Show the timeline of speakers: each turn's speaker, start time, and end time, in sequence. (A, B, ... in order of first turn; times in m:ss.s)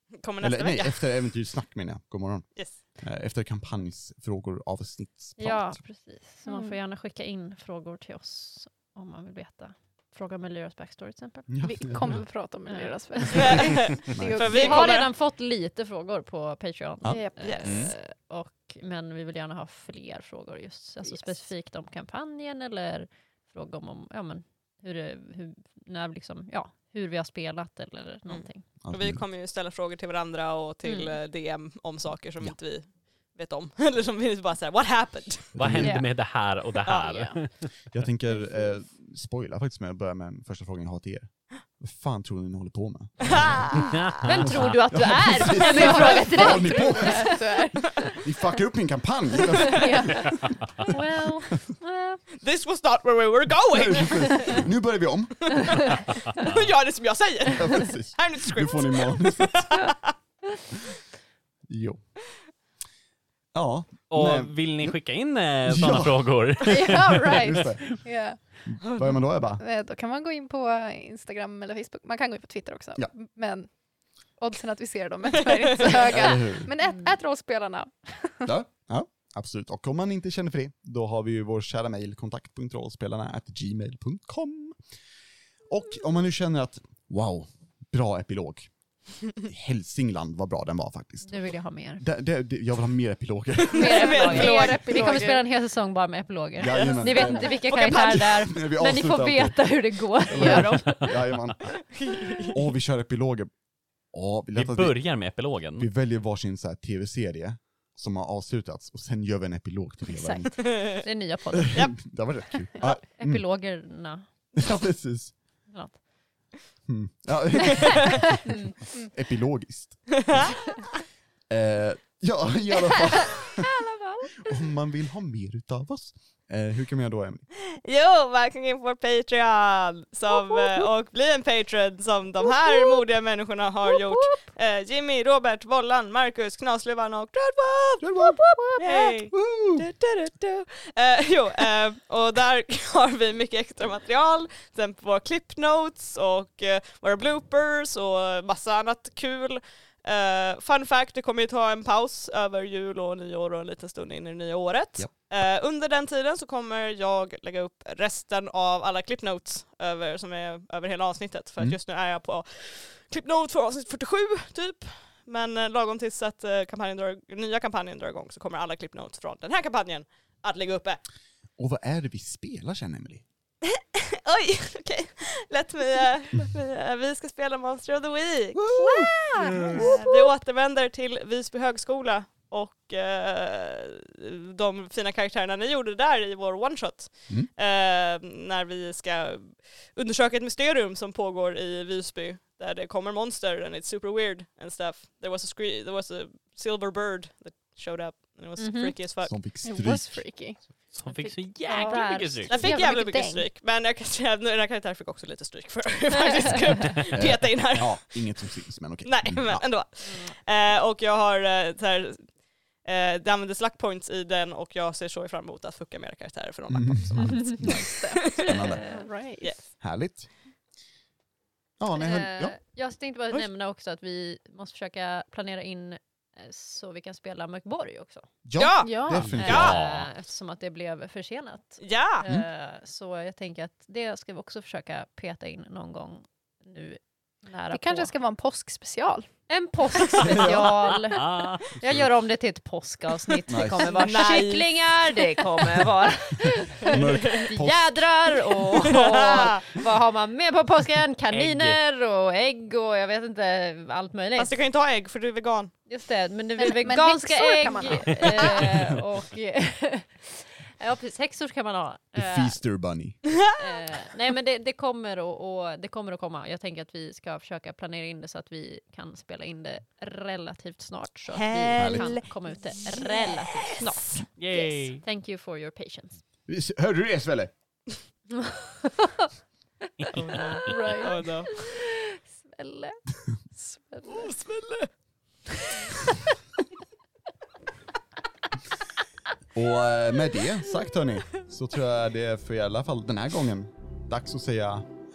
0:00.2-0:01.1 A
0:00.4-0:05.8 B
0:05.4-0:11.5 C
0:06.4-0:06.8 D
0:11.5-0:12.2 B
0:11.6-0:15.0 D
0:12.7-0:13.6 C
0:13.3-0:13.6 B
0:13.4-0:15.1 A
0:14.1-0:14.5 B
0:14.5-0:28.6 C
0:17.0-0:17.9 B
0:17.1-0:17.7 D
0:17.4-0:17.6 A
0:21.1-0:21.4 D
0:28.3-0:35.6 A
0:28.8-0:29.2 B
0:30.8-0:31.2 C
0:35.5-0:36.1 B
0:35.6-0:37.9 E
0:35.8-0:36.1 C
0:36.8-0:37.1 A
0:37.0-0:37.4 D
0:37.9-0:43.8 B
0:43.3-0:43.9 A
0:43.9-0:44.8 E
0:44.2-0:47.3 C
0:44.9-0:50.5 B
0:45.6-0:48.0 D
0:49.8-0:50.9 D
0:50.9-0:52.2 C
0:52.4-0:54.7 A
0:53.7-0:56.0 B
0:56.4-1:00.1 A
0:57.6-0:59.9 B
1:01.7-1:02.0 B
1:03.5-1:06.6 B
1:04.1-1:07.6 E
1:06.7-1:08.4 D
1:07.4-1:09.6 B
1:09.6-1:18.5 D
1:16.0-1:16.7 B
1:18.4-1:24.8 B
1:25.7-1:31.4 B
1:31.3-1:32.0 C
1:32.0-1:34.7 B
1:33.7-1:35.3 A
1:33.7-1:41.3 C
1:34.0-1:35.4 D
1:36.6-1:43.5 B
1:36.7-1:38.0 A
1:41.9-1:42.6 A
1:44.1-1:50.8 B
1:44.6-1:45.9 E
1:50.1-1:50.5 D
1:50.5-1:51.0 A
1:50.9-1:52.0 C
1:51.7-1:53.5 B
1:52.8-1:54.3 C
1:54.6-1:55.4 B
1:55.7-1:56.0 C
1:56.9-2:00.8 B
1:58.5-1:58.7 C
2:01.5-2:03.7 B
2:04.4-2:07.5 B
2:07.8-2:18.1 A
2:18.0-2:19.9 B
2:18.8-2:19.1 D
2:18.8-2:51.0 A
2:51.6-2:53.2 B
2:53.8-2:58.8 A
2:58.6-2:59.9 B
2:59.0-2:59.9 D
2:59.2-2:59.7 C
2:59.5-3:19.3 A
3:18.6-3:19.0 C
3:19.2-3:20.6 B
3:19.6-3:23.5 D
3:20.9-3:22.8 E
3:21.7-3:22.8 C
3:22.5-3:28.4 A
3:26.1-3:26.7 C
3:27.1-3:29.6 B
3:29.0-3:38.6 A
3:30.1-3:30.3 C
3:36.7-3:38.8 B
3:37.6-3:39.5 D
3:38.7-3:39.1 C
3:39.8-3:40.3 B
3:41.8-3:42.6 B
3:42.0-3:48.3 C
3:48.4-3:49.8 B
3:48.6-3:49.8 A
3:48.8-3:49.4 D
3:49.3-3:58.1 C
3:49.4-3:50.1 E
3:51.8-3:52.2 A
3:57.7-3:59.4 D
3:59.5-4:14.6 C
4:00.2-4:00.9 B
4:01.2-4:01.6 E
4:01.8-4:02.1 B
4:03.5-4:03.9 B
4:03.8-4:05.2 A
4:06.8-4:08.4 B
4:06.9-4:07.5 A
4:08.9-4:09.6 A
4:11.3-4:11.8 E
4:14.4-4:15.7 A
4:15.9-4:22.6 C
4:16.6-4:18.7 D
4:22.1-4:23.4 B
4:23.6-4:36.2 C
4:31.3-4:32.7 A
4:31.8-4:32.2 B
4:34.4-4:35.0 E
4:36.5-4:37.5 B
4:40.0-4:40.7 E
4:40.1-4:41.6 A
4:40.7-4:41.1 D
4:40.8-4:44.1 C
4:44.1-4:44.9 A
4:49.5-4:54.9 B